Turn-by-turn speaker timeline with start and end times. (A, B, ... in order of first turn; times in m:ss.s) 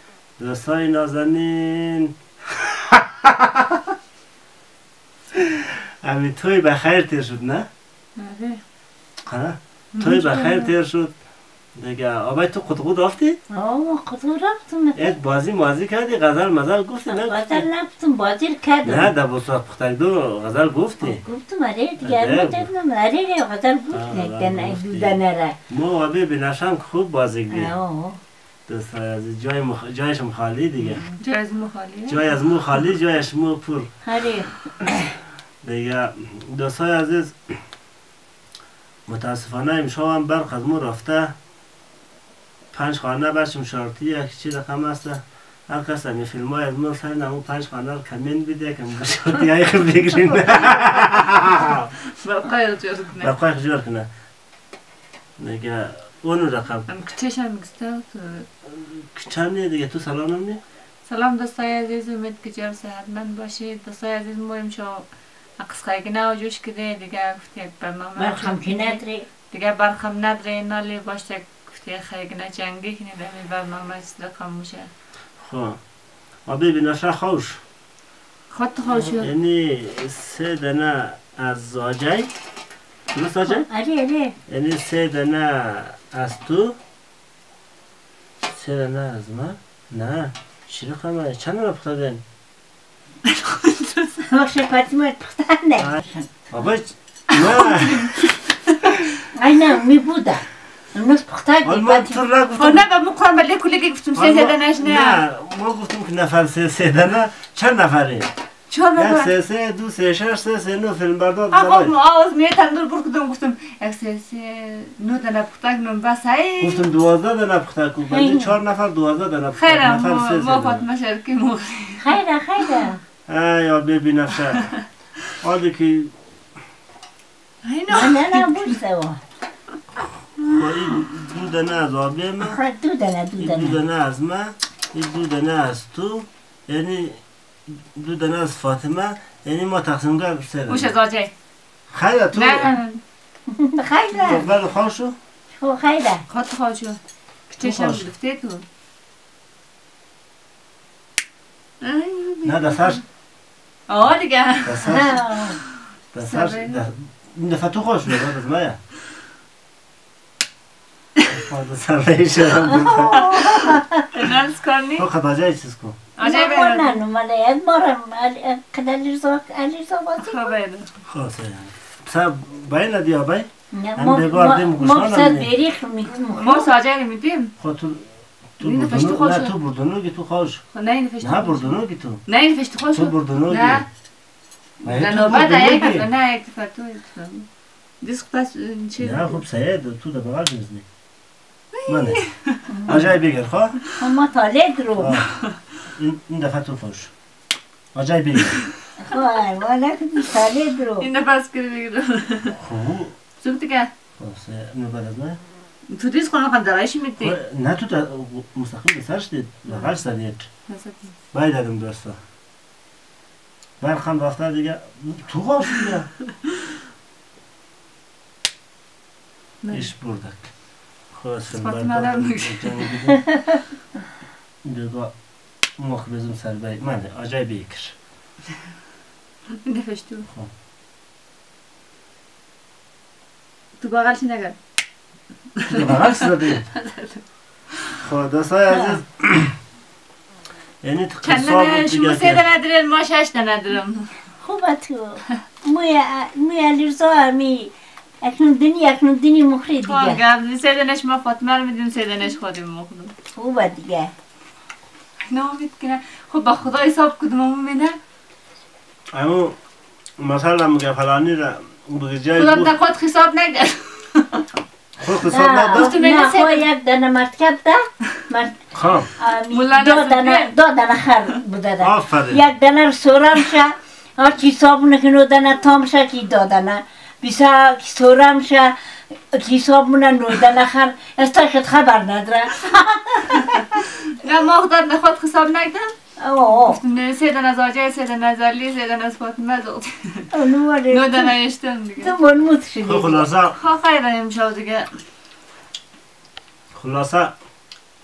0:00.4-0:02.1 A
0:02.6-0:03.8 A
0:05.4-0:07.7 A
0:08.2-0:08.6 B
0:09.3-0:11.2 A
0:09.9-0:10.7 B
0:11.8-0:13.4 A
0:13.5-0:15.2 C
0:15.0-0:17.7 A
0:17.1-0:19.1 C
0:18.8-0:21.2 A
0:21.0-0:25.6 C
0:22.0-0:22.7 A
0:23.9-0:25.2 A
0:25.7-0:27.7 A
0:27.5-0:28.2 C
0:28.7-0:31.0 A
0:30.8-0:32.8 B
0:32.1-0:33.9 A
0:34.0-0:35.1 C
0:35.6-0:37.6 A
0:39.1-0:41.3 A
0:42.7-0:51.9 A
0:51.6-0:53.3 B
0:53.2-0:54.1 A
0:55.4-0:56.9 A
0:56.9-0:58.5 B
0:58.6-1:00.6 A
1:01.1-1:05.1 B
1:05.6-1:14.9 B
1:08.2-1:09.3 C
1:15.4-1:15.8 A
1:16.4-1:17.6 A
1:18.5-1:19.3 B
1:19.2-1:22.3 A
1:23.1-1:23.7 A
1:23.4-1:24.4 C
1:24.5-1:26.8 A
1:28.4-1:32.2 A
1:33.2-1:34.3 B
1:34.3-1:36.3 C
1:35.8-1:38.2 A
1:37.3-1:39.0 B
1:39.4-1:42.2 C
1:41.6-1:42.8 A
1:42.6-1:45.2 B
1:44.2-1:48.3 A
1:48.7-1:49.3 B
1:49.0-1:51.9 A
1:51.5-1:56.8 B
1:56.6-2:00.8 A
1:58.1-1:58.5 C
1:59.6-2:02.9 B
2:02.0-2:03.0 C
2:03.3-2:04.7 A
2:05.4-2:06.1 A
2:07.6-2:08.8 B
2:07.9-2:09.2 C
2:10.4-2:12.6 A
2:12.4-2:13.8 C
2:13.4-2:20.9 A
2:20.7-2:21.3 B
2:21.9-2:22.7 A
2:22.4-2:23.0 B
2:23.5-2:24.5 C
2:24.2-2:25.2 A
2:25.6-2:26.2 C
2:26.3-2:27.0 B
2:27.5-2:28.6 B
2:27.6-2:28.1 A
2:31.8-2:33.0 B
2:32.4-2:33.0 A
2:33.9-2:34.9 B
2:34.6-2:35.2 A
2:34.8-2:35.6 C
2:36.1-2:38.8 A
2:36.2-2:36.8 B
2:41.3-2:43.7 A
2:42.7-2:44.0 C
2:43.1-2:43.6 B
2:44.1-2:45.1 B
2:45.0-2:46.0 A
2:46.2-2:47.0 B
2:46.2-2:50.5 C
2:50.2-2:50.9 B
2:51.1-2:55.5 A
2:53.7-2:56.7 C
2:56.3-2:57.5 B
2:57.6-3:00.6 A
2:58.6-2:59.5 B
3:00.7-3:03.9 B
3:01.2-3:02.2 A
3:02.9-3:03.8 A
3:04.8-3:07.5 B
3:04.8-3:06.1 A
3:08.0-3:09.4 B
3:09.0-3:10.8 A
3:11.8-3:12.6 B
3:11.9-3:12.2 A
3:12.7-3:13.1 C
3:12.9-3:13.8 A
3:14.0-3:15.2 C
3:15.0-3:15.3 A
3:15.9-3:17.1 A
3:18.0-3:18.6 A
3:19.0-3:21.1 C
3:21.0-3:22.6 B
3:22.5-3:23.2 A
3:23.4-3:23.9 B
3:24.2-3:25.4 A
3:25.9-3:27.4 B
3:27.2-3:30.5 A
3:30.7-3:31.2 B
3:31.3-3:32.2 A
3:33.8-3:36.1 A
3:39.6-3:39.9 B
3:39.7-3:40.5 A
3:41.1-3:43.2 A
3:41.5-3:42.9 B
3:44.6-3:45.1 A
3:45.8-3:48.0 A
3:49.6-3:50.3 B
3:53.8-3:54.6 B
3:55.6-3:57.2 B
3:55.7-3:56.7 A
3:58.0-3:59.6 A
4:00.8-4:02.5 A
4:01.2-4:04.1 B
4:04.4-4:10.2 C
4:09.8-4:13.1 B
4:13.4-4:14.1 C
4:15.3-4:18.0 B
4:19.1-4:19.6 A
4:20.2-4:22.7 A
4:22.4-4:24.4 B
4:25.0-4:26.0 A
4:25.3-4:28.6 C
4:25.7-4:26.6 B
4:28.7-4:29.1 A
4:29.2-4:38.8 C
4:29.5-4:30.5 B
4:31.8-4:32.4 A
4:39.3-4:43.8 C
4:44.1-4:45.9 B
4:46.2-4:46.8 C
4:46.6-4:50.3 B
4:50.3-4:51.4 C
4:50.9-4:52.1 B
4:52.0-4:53.3 C
4:52.8-4:53.6 A
4:53.6-4:54.9 B
4:56.7-4:57.4 A